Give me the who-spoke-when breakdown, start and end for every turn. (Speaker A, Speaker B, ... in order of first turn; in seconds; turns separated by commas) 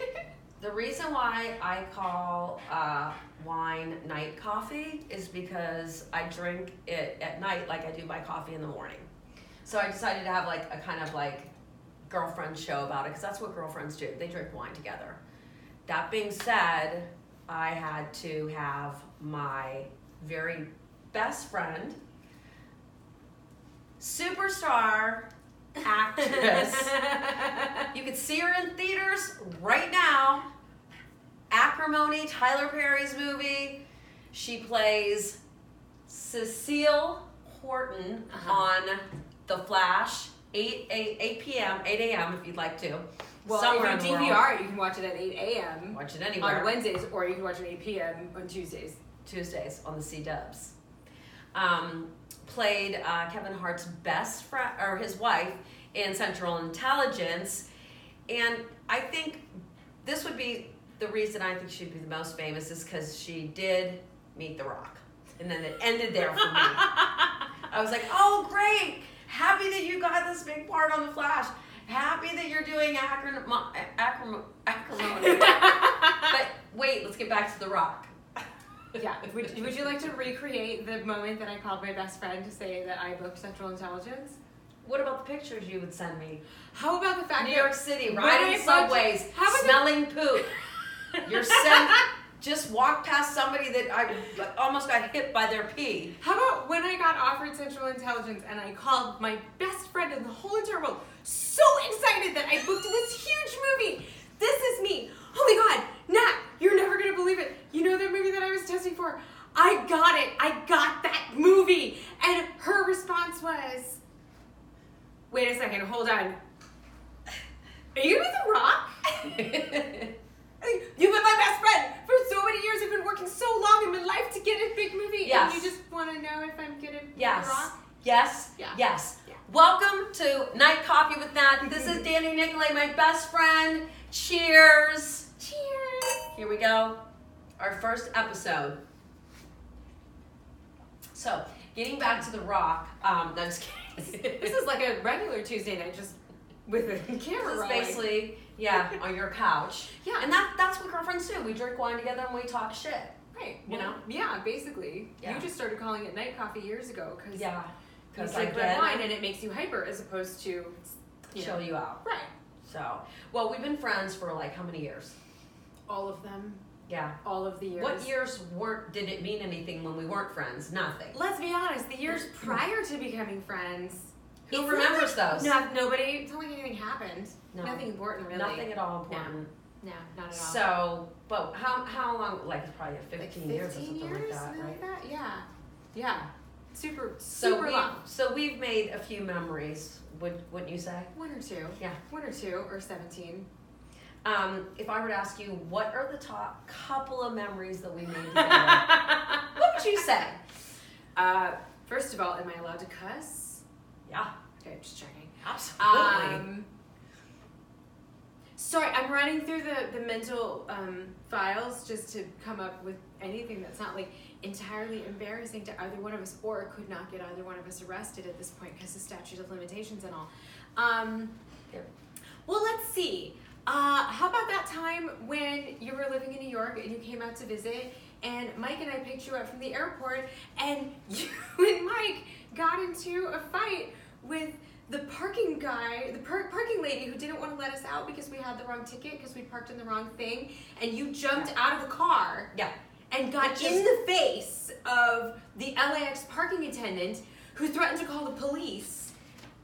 Speaker A: 0.6-9.1, Speaker A: 9.7-11.5, Speaker A: 12.1-15.2, Speaker A: 15.9-22.0, Speaker A: 24.0-25.3, Speaker A: 25.8-27.0, Speaker B: 26.2-27.9, Speaker A: 27.9-30.5, Speaker A: 31.5-33.8, Speaker A: 34.3-35.4, Speaker A: 36.1-44.5, Speaker B: 38.3-38.6, Speaker B: 43.4-49.0, Speaker A: 45.9-46.7, Speaker A: 49.2-50.8, Speaker A: 51.5-57.7, Speaker A: 58.3-59.5, Speaker A: 60.0-67.0, Speaker B: 66.5-67.1, Speaker A: 67.7-78.1, Speaker B: 75.0-76.4, Speaker B: 79.0-84.4, Speaker A: 84.8-86.4, Speaker B: 86.7-90.0, Speaker A: 87.4-90.5, Speaker B: 91.1-92.1, Speaker A: 91.2-96.2, Speaker B: 96.2-114.0, Speaker B: 115.3-116.4, Speaker B: 117.9-120.1, Speaker B: 120.6-127.7, Speaker A: 125.2-125.7, Speaker A: 127.2-135.3, Speaker B: 128.6-129.4, Speaker B: 131.7-132.0, Speaker B: 135.4-136.3, Speaker A: 136.3-137.0, Speaker A: 137.6-138.8, Speaker A: 141.1-144.6, Speaker B: 144.1-148.1, Speaker A: 147.3-153.1, Speaker B: 150.0-150.3, Speaker B: 153.3-157.5, Speaker A: 153.7-154.0, Speaker A: 155.2-155.5, Speaker A: 157.3-159.1, Speaker B: 158.2-162.3, Speaker A: 161.3-162.0, Speaker A: 162.6-165.2, Speaker B: 165.9-166.6, Speaker A: 166.9-167.2, Speaker B: 167.2-168.1, Speaker A: 167.7-171.2, Speaker B: 171.1-180.7, Speaker A: 174.5-175.6, Speaker A: 177.5-179.5, Speaker A: 180.3-184.8, Speaker B: 183.2-188.0, Speaker A: 187.3-191.1, Speaker B: 191.1-193.5, Speaker A: 194.2-198.9, Speaker B: 198.3-200.1, Speaker A: 199.6-200.4, Speaker B: 201.2-203.6, Speaker A: 204.1-204.3, Speaker B: 204.6-206.7, Speaker A: 205.4-206.4, Speaker B: 208.6-221.3, Speaker B: 222.5-242.5, Speaker B: 243.1-249.1, Speaker A: 243.4-243.9